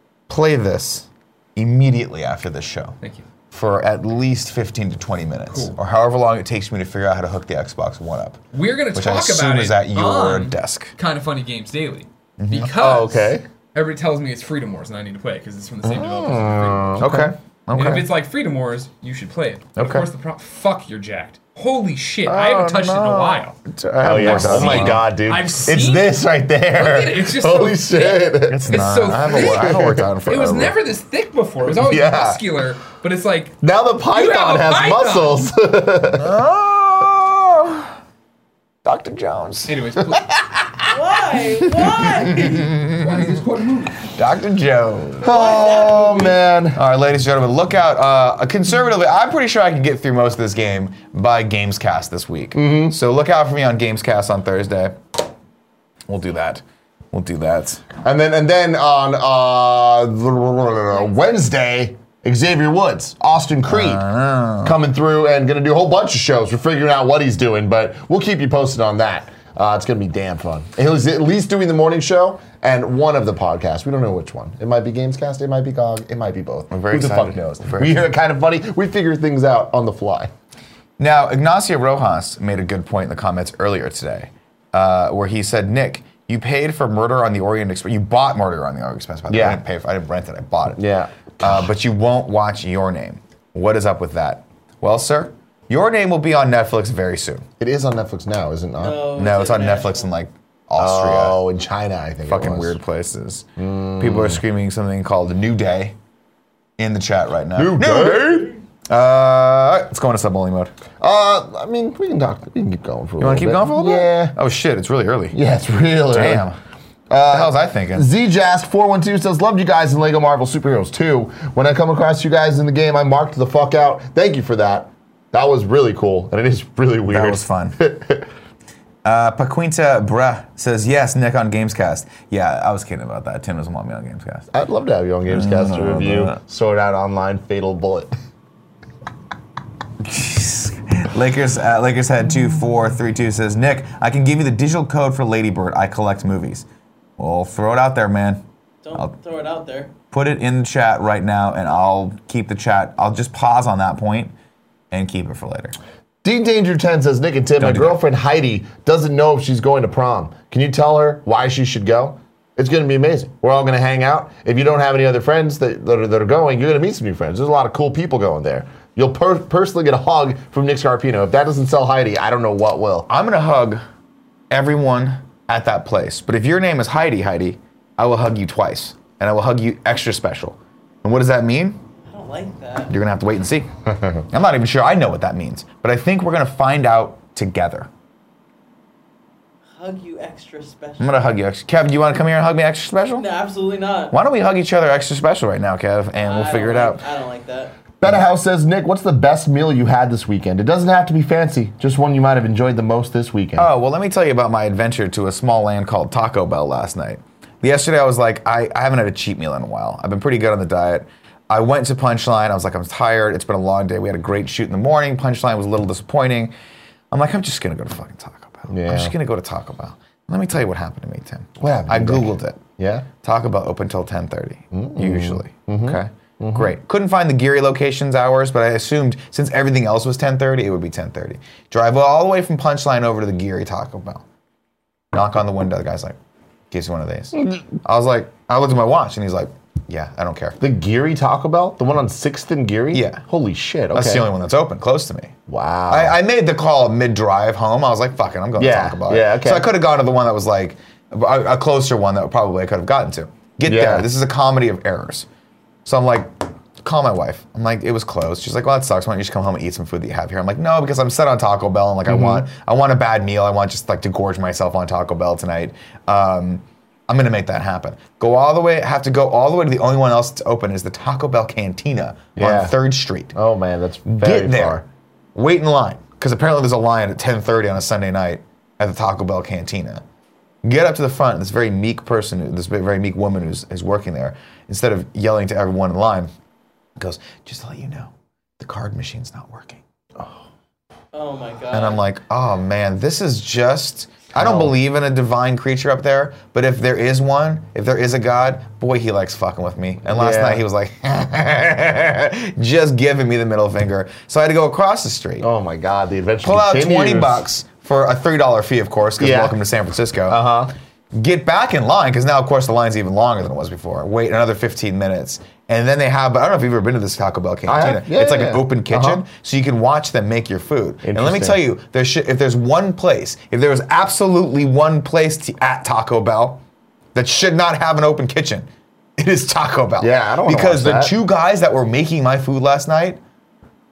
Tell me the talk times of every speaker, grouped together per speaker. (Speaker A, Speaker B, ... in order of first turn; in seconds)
Speaker A: 0.3-3.0, 3.5-10.9, 12.4-12.7, 17.0-18.1, 19.8-20.1, 22.3-25.1, 28.5-30.8, 36.1-37.9, 38.9-40.9, 41.6-43.4, 44.0-45.9, 46.8-55.0, 56.1-57.9, 63.7-64.8, 76.7-78.0, 81.0-90.8, 91.4-97.5, 99.2-101.4, 102.3-103.5, 104.0-106.0, 106.8-110.7, 113.2-115.4, 116.1-116.6, 117.3-118.1, 127.1-127.8, 129.0-134.5, 135.3-136.4, 140.0-146.7, 147.2-148.4, 150.1-154.3, 154.9-155.8, 157.6-158.0, 173.1-173.8, 174.5-181.8, 182.9-183.7, 184.3-187.9, 191.0-193.3, 194.1-197.0, 203.6-216.5, 217.1-222.6, 223.2-234.2, 235.1-236.2, 236.7-240.6, 242.9-243.2, 243.9-245.3, 245.9-255.3, 255.8-273.3, 274.1-274.8, 275.4-280.0, 280.6-286.3, 287.0-289.8, 291.7-305.5, 306.4-310.5, 311.1-326.6, 327.1-333.2
Speaker B: 5.5-5.8, 8.5-17.2, 17.7-23.6, 24.1-26.2, 26.7-33.6, 34.1-35.5, 39.7-40.3, 42.4-44.0
Speaker C: 12.7-13.4, 15.8-17.3, 24.0-30.1, 31.7-32.4, 33.6-36.3, 45.2-46.8, 52.5-53.0, 58.0-64.0, 64.6-80.3, 89.3-89.6, 90.7-91.7, 97.6-99.1, 100.8-102.8, 103.6-104.4, 107.6-108.6, 111.0-114.4, 115.3-116.4, 117.1-128.3, 134.5-138.1, 156.2-173.1, 198.0-203.7, 218.7-219.2, 221.6-223.1, 224.7-226.7, 240.6-244.3, 245.5-246.2, 248.6-249.7, 253.7-254.1, 262.1-262.4, 272.4-272.8, 273.3-274.8, 294.3-294.7, 300.1-300.6, 305.4-307.4, 309.2-309.6, 310.3-310.7, 317.7-319.2, 321.0-321.6, 330.0-331.2
Speaker D: 40.9-42.6, 45.2-46.4, 98.8-100.1, 148.8-149.9, 182.1-182.9, 189.8-191.2, 193.2-194.2, 196.2-197.7, 291.1-292.0